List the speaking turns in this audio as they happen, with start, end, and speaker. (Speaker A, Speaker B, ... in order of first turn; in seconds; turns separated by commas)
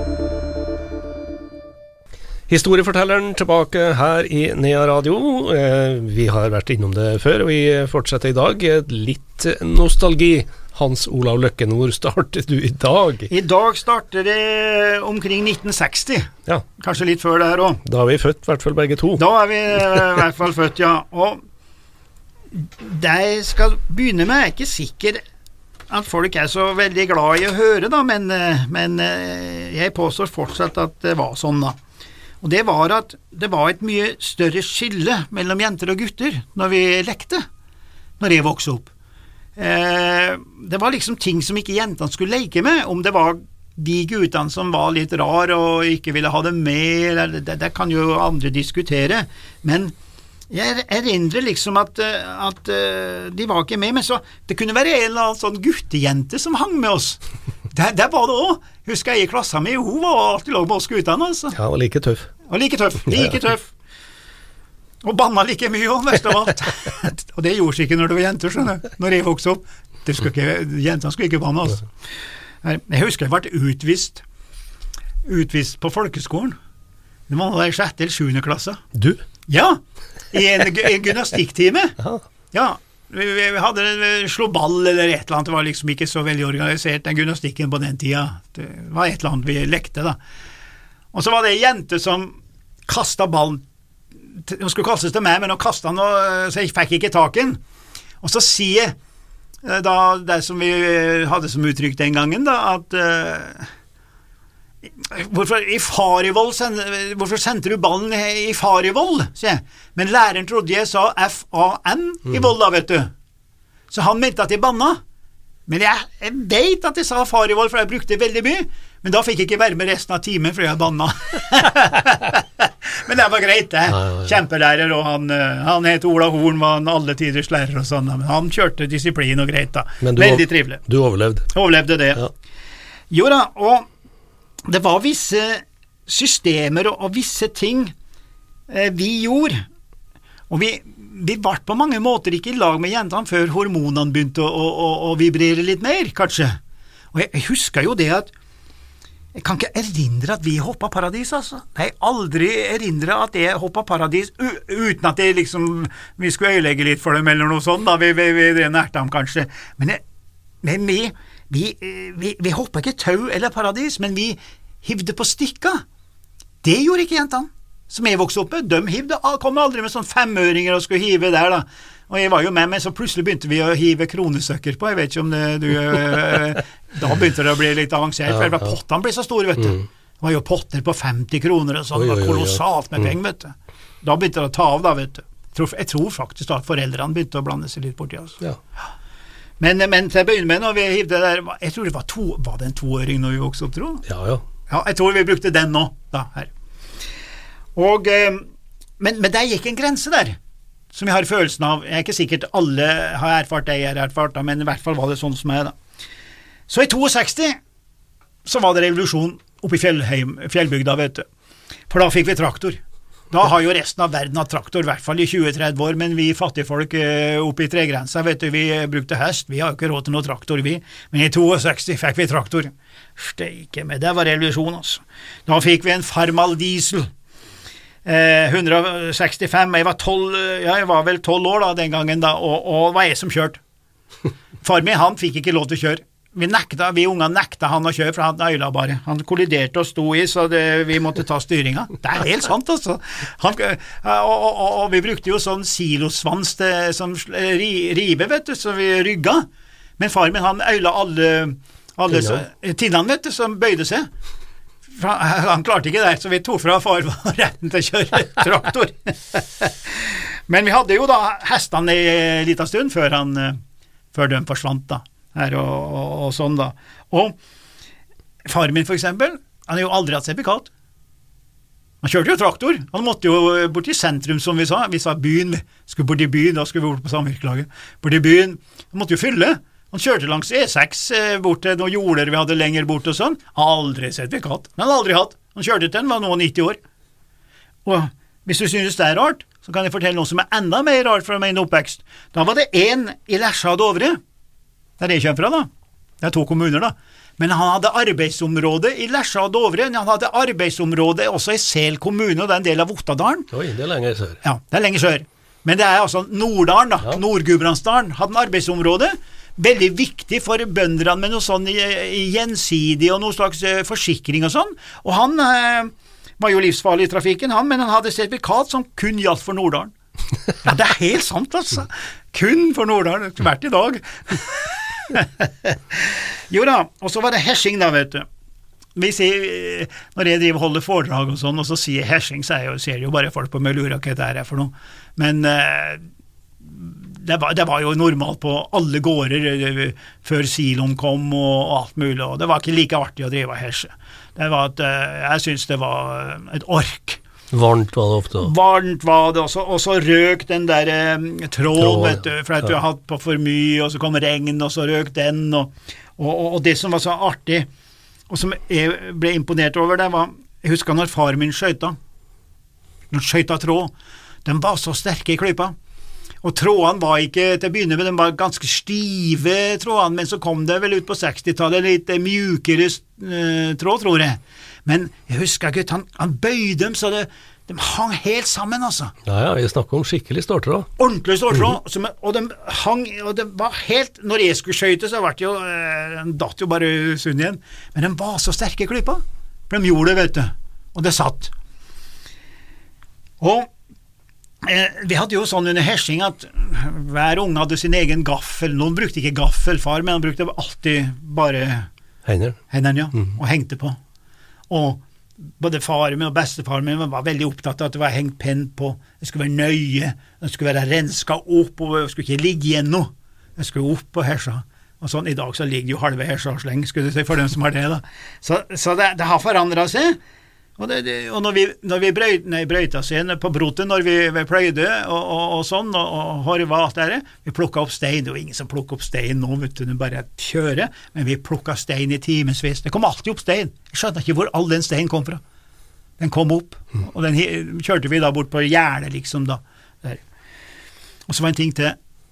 Speaker A: 2.5-13.3, Speaker B: 13.3-17.8, Speaker A: 17.9-19.2, Speaker B: 19.2-21.4, Speaker B: 22.5-25.2, Speaker B: 25.9-31.8, Speaker B: 32.4-37.4, Speaker B: 38.2-38.9, Speaker B: 39.6-49.9, Speaker B: 50.5-57.2, Speaker B: 57.7-61.6, Speaker A: 61.5-62.3, Speaker B: 62.5-63.7, Speaker B: 65.0-71.9, Speaker B: 72.6-74.2, Speaker B: 75.3-76.6, Speaker B: 77.3-78.8, Speaker A: 79.0-79.2, Speaker B: 79.5-79.8, Speaker B: 80.3-82.0, Speaker B: 82.5-90.2, Speaker B: 91.1-93.7, Speaker B: 94.4-97.6, Speaker B: 98.2-99.0, Speaker B: 99.6-103.7, Speaker B: 104.9-113.1, Speaker B: 113.9-115.0, Speaker B: 115.7-130.8, Speaker A: 124.0-124.3, Speaker A: 130.0-131.5, Speaker B: 131.5-132.3, Speaker B: 133.1-133.9, Speaker B: 134.7-137.9, Speaker B: 138.7-139.6, Speaker B: 140.5-146.6, Speaker B: 147.1-148.3, Speaker B: 149.3-160.0, Speaker B: 160.6-165.8, Speaker B: 166.6-188.4, Speaker A: 181.9-182.6, Speaker B: 189.6-194.1, Speaker A: 194.1-194.4, Speaker B: 194.7-196.5, Speaker B: 197.8-198.5, Speaker B: 199.0-200.4, Speaker B: 200.9-205.8, Speaker B: 206.7-207.6, Speaker B: 208.4-211.2, Speaker B: 211.9-227.1, Speaker B: 228.1-233.6, Speaker B: 234.6-249.4, Speaker B: 250.0-254.1, Speaker B: 254.9-263.6, Speaker B: 264.1-267.4, Speaker B: 268.5-270.7, Speaker B: 272.0-286.8, Speaker B: 287.9-294.2, Speaker B: 295.0-295.7, Speaker B: 296.2-303.5, Speaker A: 303.5-304.4, Speaker B: 304.4-319.9, Speaker B: 320.6-328.2, Speaker B: 328.9-336.0, Speaker B: 336.6-347.2, Speaker A: 347.5-348.5, Speaker B: 348.4-357.7, Speaker A: 351.8-352.2, Speaker B: 358.3-361.9, Speaker B: 363.1-363.9, Speaker B: 364.4-365.7, Speaker B: 366.4-379.1, Speaker A: 379.3-380.9, Speaker B: 381.0-391.5, Speaker B: 393.4-393.7, Speaker B: 394.6-401.9, Speaker A: 402.2-402.6, Speaker B: 402.7-404.0, Speaker B: 404.7-405.0, Speaker B: 405.6-420.2, Speaker B: 420.8-435.4, Speaker B: 436.2-440.2, Speaker B: 441.3-442.0